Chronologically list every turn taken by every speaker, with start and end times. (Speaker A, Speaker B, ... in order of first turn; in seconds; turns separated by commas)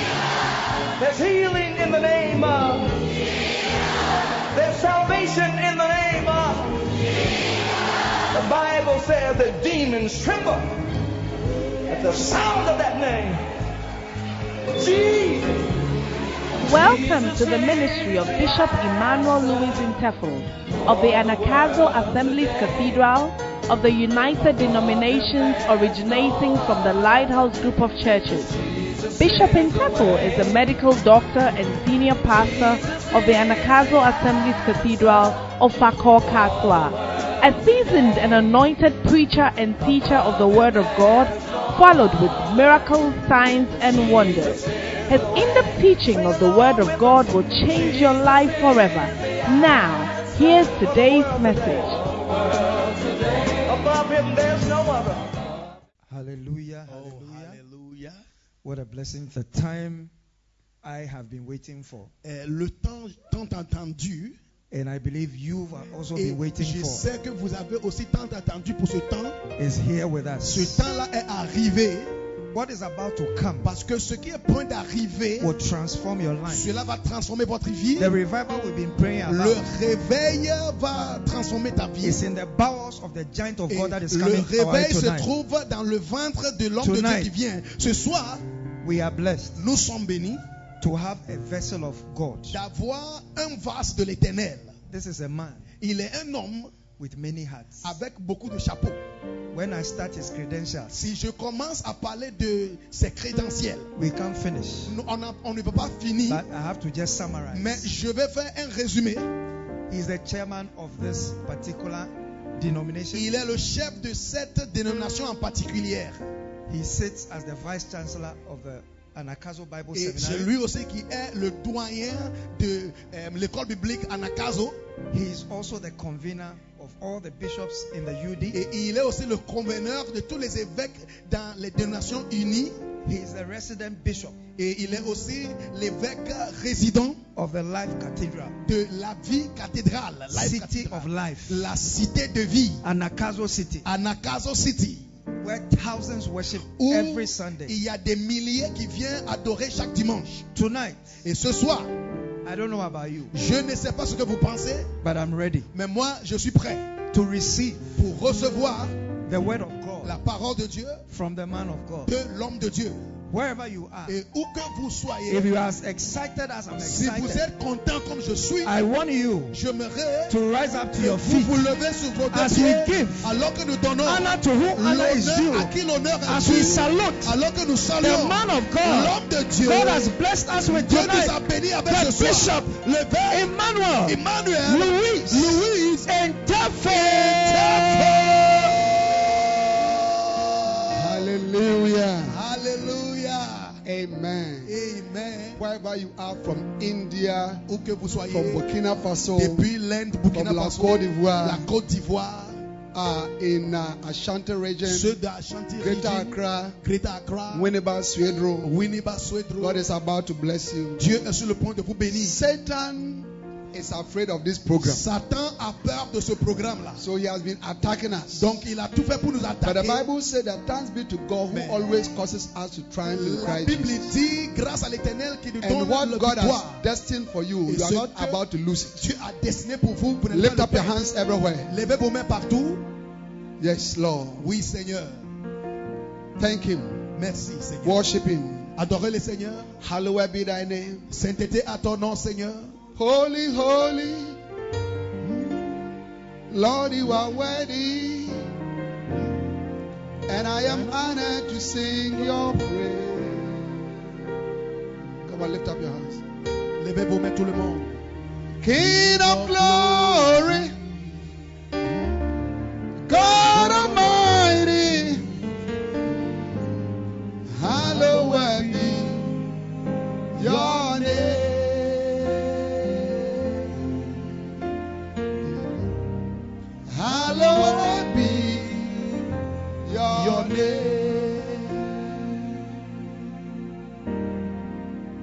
Speaker A: 1.0-3.1, Speaker A: 4.5-6.8, Speaker A: 8.3-10.7, Speaker A: 11.9-13.4, Speaker A: 14.8-15.7, Speaker B: 16.6-28.6, Speaker B: 29.1-52.0, Speaker A: 53.6-55.3, Speaker C: 56.1-57.6, Speaker D: 56.9-58.2, Speaker C: 58.6-60.1, Speaker C: 60.8-62.1, Speaker D: 62.2-64.3, Speaker C: 64.7-67.0, Speaker D: 66.1-69.4, Speaker C: 69.6-70.8, Speaker D: 70.4-72.1, Speaker C: 72.5-73.7, Speaker D: 73.6-75.5, Speaker C: 75.4-76.7, Speaker D: 76.5-78.2, Speaker C: 78.0-79.7, Speaker D: 79.3-82.2, Speaker C: 82.0-85.3, Speaker D: 83.7-88.4, Speaker C: 86.8-87.3, Speaker C: 88.8-89.7, Speaker D: 89.6-90.4, Speaker C: 90.8-92.6, Speaker D: 92.5-94.8, Speaker C: 94.9-95.7, Speaker D: 95.8-96.8, Speaker C: 97.0-98.0, Speaker D: 97.8-99.0, Speaker C: 99.5-101.0, Speaker D: 100.9-103.9, Speaker C: 104.0-104.9, Speaker D: 104.9-106.4, Speaker C: 106.3-107.9, Speaker D: 107.5-109.3, Speaker C: 109.9-113.3, Speaker D: 113.1-116.2, Speaker C: 116.7-120.5, Speaker D: 119.9-124.8, Speaker C: 125.1-128.6, Speaker D: 128.5-132.8, Speaker C: 133.0-134.4, Speaker D: 134.6-137.2, Speaker C: 137.3-138.6, Speaker D: 138.6-142.8, Speaker C: 140.3-141.7, Speaker C: 142.8-143.9, Speaker D: 143.8-145.1, Speaker C: 145.4-147.8, Speaker D: 146.8-150.4, Speaker C: 150.5-151.2, Speaker D: 151.2-151.9, Speaker C: 152.4-153.3, Speaker D: 153.3-154.9, Speaker C: 155.0-155.7, Speaker D: 155.7-156.9, Speaker C: 157.1-158.0, Speaker D: 157.9-158.9, Speaker C: 159.3-160.2, Speaker D: 160.0-161.0, Speaker C: 161.1-162.1, Speaker D: 162.1-163.1, Speaker C: 163.3-164.2, Speaker D: 164.1-165.5, Speaker C: 165.3-167.5, Speaker D: 166.8-168.8, Speaker C: 168.6-169.6, Speaker D: 169.5-170.4, Speaker C: 170.3-171.7, Speaker D: 170.9-180.1, Speaker C: 172.3-173.3, Speaker C: 174.0-175.7, Speaker C: 176.2-177.3, Speaker C: 178.0-189.5, Speaker D: 180.7-183.5, Speaker D: 184.0-186.1, Speaker D: 186.8-191.3, Speaker E: 190.9-192.3, Speaker D: 192.2-193.8, Speaker E: 193.8-194.7, Speaker D: 194.7-195.6, Speaker E: 195.6-197.6, Speaker D: 197.7-198.7, Speaker E: 198.3-199.7, Speaker D: 199.3-202.6, Speaker E: 200.3-201.7, Speaker E: 202.9-205.1, Speaker D: 204.8-207.7, Speaker E: 205.8-206.8, Speaker E: 207.5-208.7, Speaker D: 208.6-209.8, Speaker E: 209.6-211.1, Speaker D: 211.0-212.4, Speaker E: 212.1-215.0, Speaker D: 214.8-217.0, Speaker E: 217.0-218.6, Speaker D: 218.3-220.1, Speaker E: 219.6-224.1, Speaker D: 221.5-221.9, Speaker D: 223.0-226.8, Speaker E: 225.6-229.0, Speaker D: 227.7-228.4, Speaker D: 229.0-231.0, Speaker E: 230.3-231.7, Speaker D: 231.7-232.8, Speaker E: 233.6-234.5, Speaker D: 234.4-235.2, Speaker E: 236.4-237.0, Speaker D: 237.1-238.1, Speaker E: 237.8-238.7, Speaker D: 238.8-239.7, Speaker E: 239.8-241.1, Speaker D: 241.1-242.8, Speaker E: 242.9-244.4, Speaker E: 246.5-248.5, Speaker E: 250.3-253.8, Speaker D: 250.6-251.1, Speaker E: 255.2-256.2, Speaker D: 256.8-258.0, Speaker E: 258.6-260.7, Speaker D: 258.7-261.2, Speaker E: 263.1-265.2, Speaker D: 263.3-265.1, Speaker E: 267.5-269.3, Speaker D: 267.7-269.3, Speaker D: 270.3-271.4, Speaker E: 270.3-273.7, Speaker E: 276.9-278.9, Speaker D: 277.1-279.2, Speaker E: 279.8-282.3, Speaker D: 280.1-281.1